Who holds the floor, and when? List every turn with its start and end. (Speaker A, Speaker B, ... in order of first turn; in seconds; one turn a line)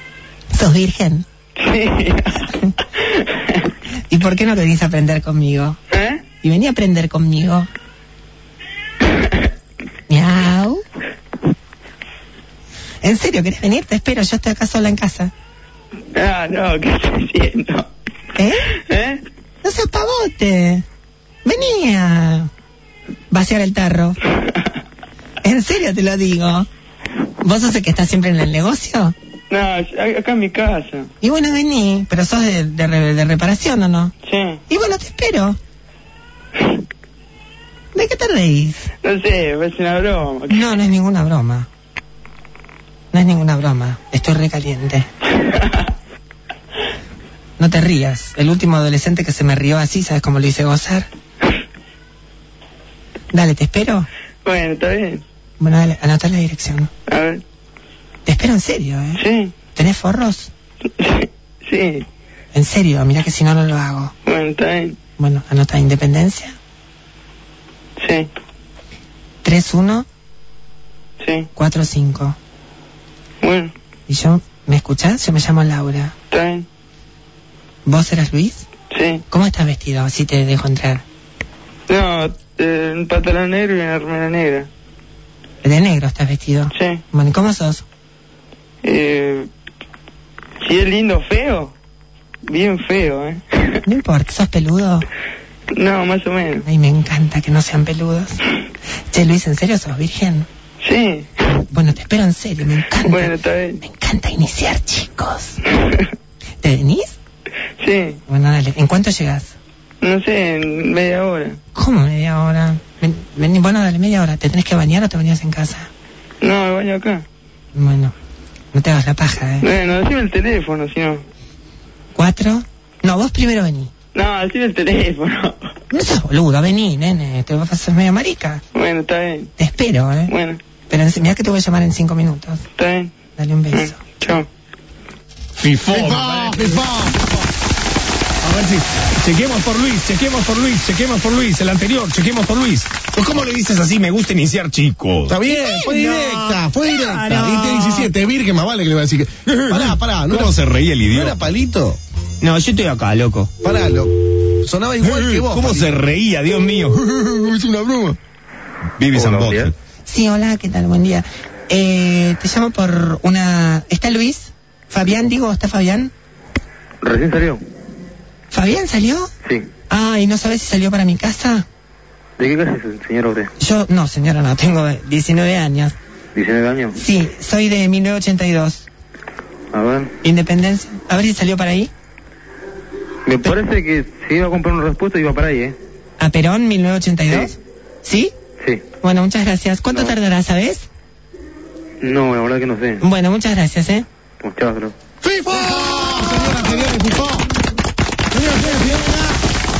Speaker A: 0.5-1.2
Speaker B: 1.6-3.7
Speaker A: 4.1-5.8
Speaker B: 5.9-6.2
Speaker A: 6.4-7.7
Speaker B: 9.1-9.3
Speaker A: 10.1-10.8
Speaker A: 13.0-15.3
Speaker B: 16.1-17.9
Speaker A: 18.4-18.7
Speaker B: 18.6-19.2
Speaker A: 19.6-20.9
Speaker A: 21.4-22.5
Speaker A: 23.3-24.2
Speaker A: 25.4-26.7
Speaker A: 27.4-29.1
Speaker B: 29.5-31.1
Speaker A: 31.2-34.1
Speaker B: 34.2-34.6
Speaker A: 34.7-35.6
Speaker A: 38.0-38.9
Speaker B: 39.0-40.8
Speaker A: 40.5-41.7
Speaker A: 43.1-45.1
Speaker B: 45.3-45.9
Speaker A: 47.6-51.1
Speaker A: 53.3-54.1
Speaker B: 54.4-55.2
Speaker A: 55.6-56.9
Speaker B: 57.1-57.4
Speaker A: 58.2-59.2
Speaker B: 59.2-59.5
Speaker A: 59.7-60.5
Speaker B: 61.0-62.1
Speaker A: 62.5-64.1
Speaker B: 64.2-65.0
Speaker A: 65.2-66.6
Speaker B: 68.0-68.3
Speaker A: 69.4-70.1
Speaker B: 71.2-71.5
Speaker A: 71.6-72.4
Speaker B: 73.4-73.7
Speaker A: 74.1-76.1
Speaker B: 76.3-76.7
Speaker A: 77.9-78.7
Speaker B: 78.9-79.2
Speaker A: 79.3-81.0
Speaker B: 81.9-84.7
Speaker A: 85.6-87.8
Speaker B: 86.7-87.0
Speaker B: 88.8-89.5
Speaker B: 90.6-91.8
Speaker B: 92.4-93.8
Speaker A: 93.9-95.1
Speaker B: 95.7-96.7
Speaker A: 96.6-98.4
Speaker A: 99.1-100.5
Speaker B: 100.8-101.5
Speaker A: 101.6-105.6
Speaker B: 103.0-103.8
Speaker B: 105.6-106.1
Speaker A: 106.6-107.1
Speaker B: 107.8-108.2
Speaker A: 108.3-109.5
Speaker B: 110.0-111.6
Speaker A: 111.8-115.9
Speaker B: 116.4-117.3
Speaker A: 117.8-118.1
Speaker A: 118.7-119.7
Speaker B: 119.6-121.2
Speaker A: 122.1-123.9
Speaker B: 124.1-125.7
Speaker A: 125.9-128.6
Speaker B: 128.7-129.5
Speaker A: 129.6-130.3
Speaker B: 130.3-130.6
Speaker A: 130.9-132.6
Speaker B: 132.8-133.1
Speaker A: 133.4-134.0
Speaker B: 133.7-134.5
Speaker C: 135.6-136.9
Speaker D: 135.9-137.3
Speaker C: 138.4-145.4
Speaker D: 145.3-152.0
Speaker A: 145.5-148.1
Speaker C: 149.5-151.4
Speaker A: 152.4-153.5
Speaker D: 153.6-155.9
Speaker C: 155.0-157.0
Speaker D: 156.9-158.2
Speaker C: 159.0-159.7
Speaker E: 159.1-159.7
Speaker A: 160.1-166.1
Speaker E: 167.0-167.6
Speaker A: 168.5-169.3
Speaker A: 169.9-171.7
Speaker E: 172.4-173.5
Speaker A: 173.6-175.9
Speaker E: 176.3-177.0
Speaker A: 176.9-178.9
Speaker E: 179.7-180.1
Speaker A: 180.2-181.9
Speaker E: 183.2-185.8
Speaker A: 186.2-188.3
Speaker A: 189.0-190.9
Speaker E: 192.0-193.0
Speaker A: 193.0-194.1
Speaker E: 194.4-194.9
Speaker D: 195.2-197.5
Speaker D: 198.3-199.4